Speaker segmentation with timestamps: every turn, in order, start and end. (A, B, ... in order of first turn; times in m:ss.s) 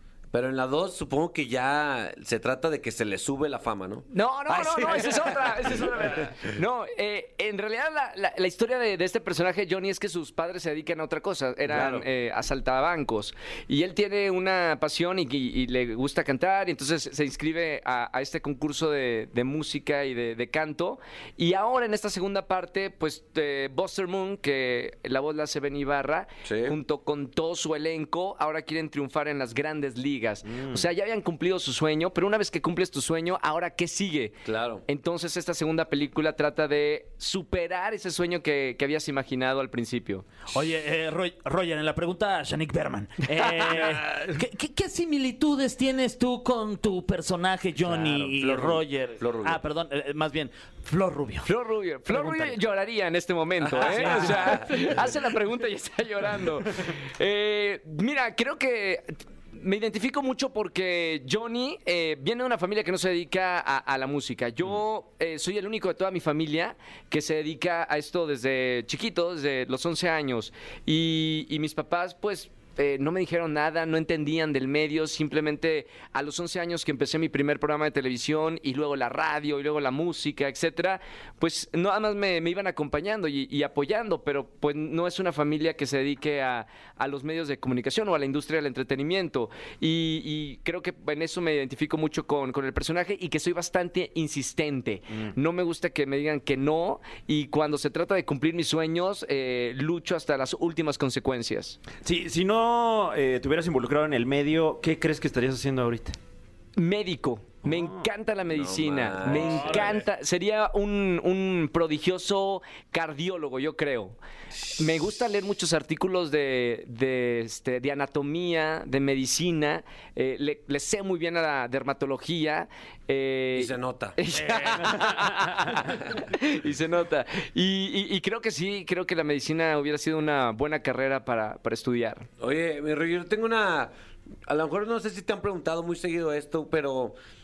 0:00.3-0:06.5 A
0:04.1-0:40.2 B
0:11.7-0:12.1 A
0:26.4-0:26.8 A
0:34.4-0:34.8 A
0:40.5-0:51.5 C
0:48.1-0:49.6 A
0:51.4-1:41.8 B
0:52.1-0:52.5 C
0:53.6-0:55.0 A
0:54.0-0:54.2 C
1:42.0-1:46.2 D
1:46.8-1:54.2 B
1:47.6-1:48.1 D
1:48.5-1:50.0 A
1:49.3-1:50.0 D
1:54.7-2:12.3 B
2:03.5-2:04.2 A
2:04.6-2:05.7 D
2:12.4-2:13.9 A
2:14.4-2:17.2 A